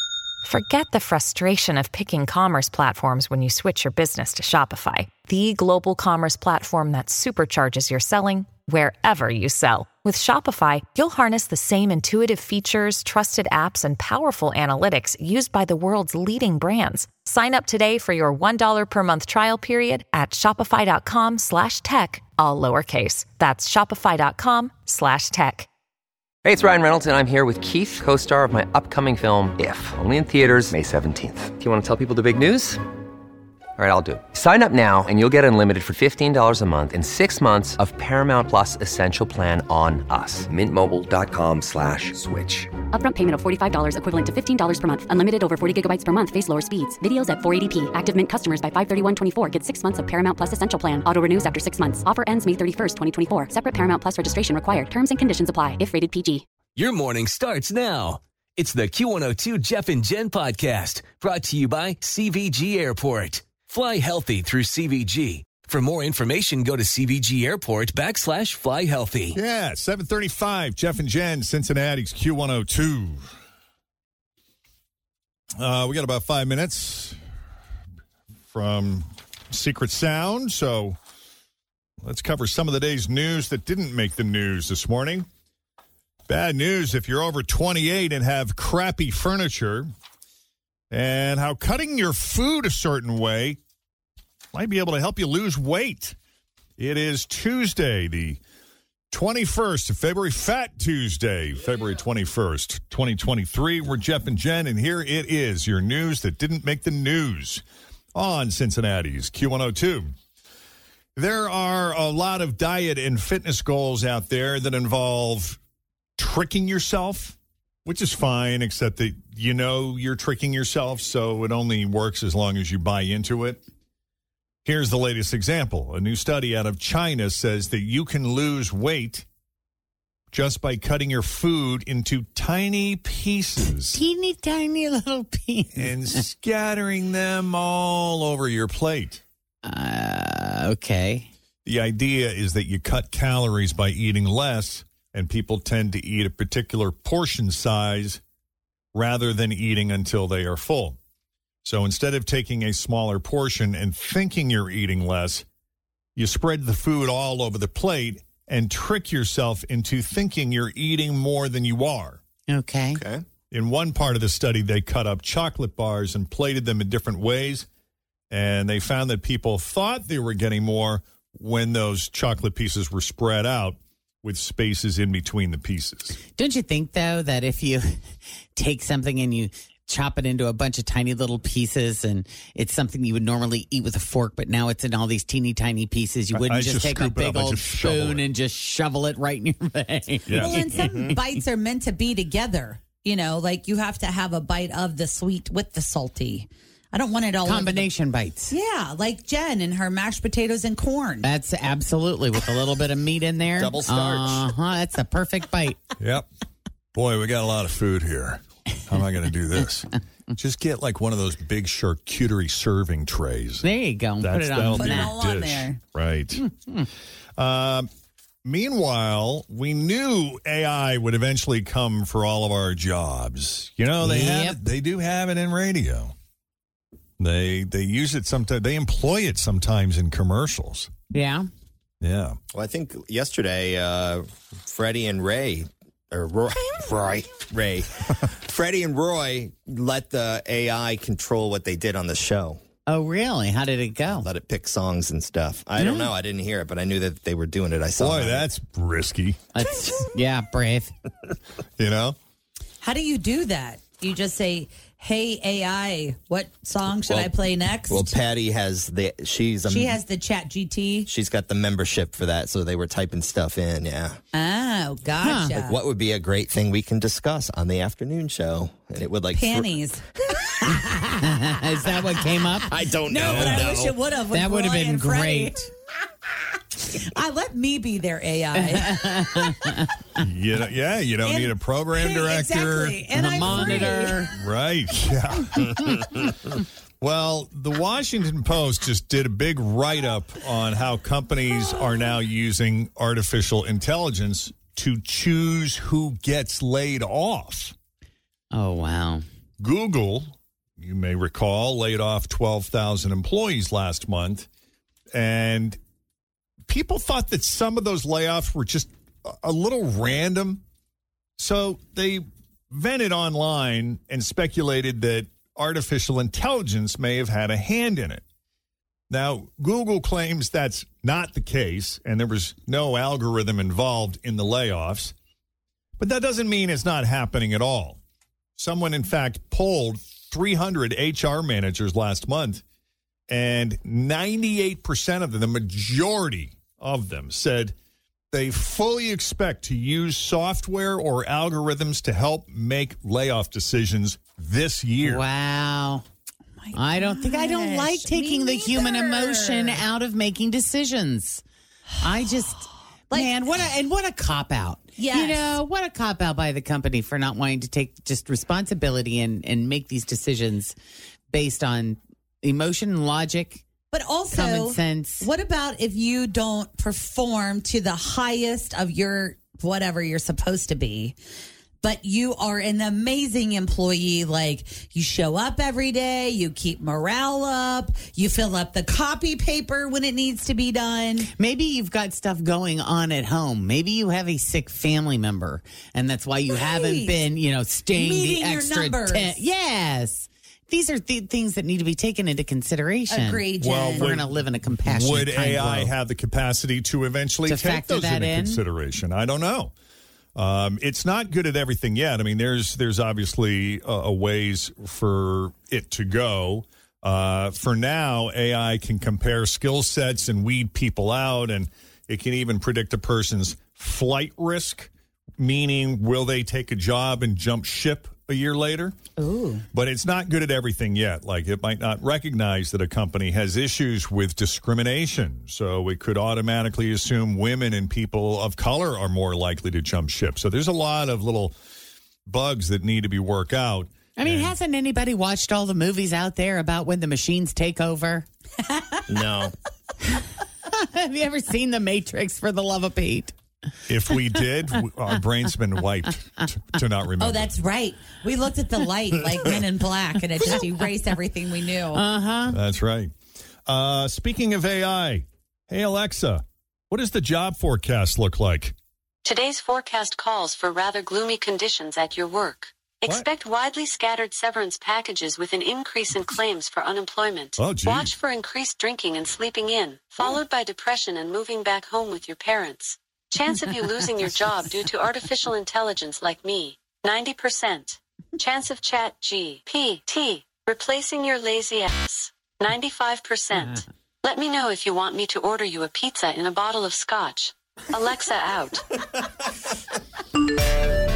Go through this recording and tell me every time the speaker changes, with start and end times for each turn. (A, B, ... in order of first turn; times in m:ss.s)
0:00.4-0:25.7 A
0:26.4-0:32.8 B
0:33.8-0:42.7 B
0:42.9-0:56.4 C
0:56.8-1:09.4 D
1:09.3-1:13.2 E
1:15.6-1:17.2 E
1:18.5-1:21.0 E
1:22.0-1:25.3 E
1:26.3-1:29.9 E
1:30.9-1:33.6 E
1:34.5-1:36.2 E
1:36.8-1:38.4 E
1:39.1-1:47.6 E
1:48.1-1:50.1 E
1:51.2-1:55.6 E
1:56.2-2:03.6 E
2:04.6-2:09.2 E
2:10.3-2:14.0 E
2:13.9-2:16.2 F
2:15.8-2:19.2 E
2:19.6-2:21.3 F
2:21.6-2:28.2 E
2:28.9-2:31.0 E
2:31.6-2:35.4 E
2:36.2-2:42.2 E
2:42.5-2:43.0 F
2:42.9-2:43.2 G
2:43.5-2:47.7 E
2:48.3-2:56.2 E
2:56.2-2:58.0 F
2:58.6-3:11.2 F
3:06.3-3:08.3 E
3:10.3-3:10.6 E
3:10.4-3:17.9 H
3:10.8-3:11.2 G
3:17.4-3:18.5 F
3:18.5-3:21.3 H
3:21.2-3:25.8 F
3:23.6-3:24.4 G
3:26.0-3:26.2 E
3:26.9-3:33.7 E
3:33.6-3:35.1 F
3:34.2-3:36.5 E
3:34.7-3:35.8 H
3:37.4-3:37.9 E
3:38.4-3:46.1 E
3:44.0-3:44.6 F
3:47.2-3:50.9 E
3:51.1-3:51.5 F
3:52.0-3:52.4 E
3:52.5-4:02.6 G
4:02.9-4:04.3 F
4:04.1-4:08.5 G
4:05.8-4:06.1 F
4:08.0-4:09.5 E
4:09.5-4:10.9 F
4:11.8-4:12.2 E
4:12.8-4:18.2 H
4:17.0-4:17.3 G
4:17.9-4:20.0 G
4:19.7-4:21.1 H
4:21.1-4:24.2 G
4:24.3-4:25.8 H
4:25.2-4:25.6 F
4:25.6-4:29.7 G
4:29.3-4:30.0 H
4:30.8-4:31.2 H
4:31.3-4:32.8 F
4:32.1-4:35.7 H
4:32.7-4:34.0 G
4:33.3-4:33.6 E
4:34.3-4:35.6 F
4:36.8-4:39.7 H
4:38.5-4:39.5 F
4:40.2-4:43.0 E
4:41.2-4:44.3 H
4:43.1-4:44.3 F
4:43.5-4:43.8 E
4:44.4-4:46.2 E
4:47.0-4:57.7 E
4:58.5-4:59.2 F
4:59.6-5:04.5 E
5:05.1-5:05.8 E
5:06.7-5:10.6 E
5:11.4-5:18.2 E
5:19.1-5:25.1 E
5:26.0-5:28.0 E
5:28.6-5:32.6 E
5:33.3-5:37.7 E
5:38.3-5:45.2 E
5:45.0-5:46.0 F
5:46.6-5:49.8 H
5:46.7-5:51.4 F
5:52.0-6:00.8 F
5:55.0-5:55.5 H
6:01.3-6:03.6 F
6:03.9-6:11.2 H
6:04.3-6:05.3 F
6:11.8-6:21.3 H
6:21.2-6:35.9 F
6:26.5-6:27.2 H
6:27.9-6:29.4 H
6:33.1-6:34.2 H
6:33.6-6:34.3 E
6:34.8-6:39.7 E
6:37.5-6:38.6 F
6:40.3-6:59.0 E
6:59.2-6:59.6 H
6:59.7-7:11.5 E
7:12.3-7:14.5 E
7:14.2-7:18.2 F
7:18.6-7:19.2 H
7:19.1-7:19.5 G
7:20.8-7:23.3 F
7:23.9-7:27.5 E
7:24.0-7:24.4 F
7:27.2-7:32.0 H
7:30.4-7:30.7 F
7:31.9-7:32.6 F
7:32.5-7:33.1 E
7:33.6-7:38.7 E
7:39.2-8:08.8 I
7:47.6-7:48.1 E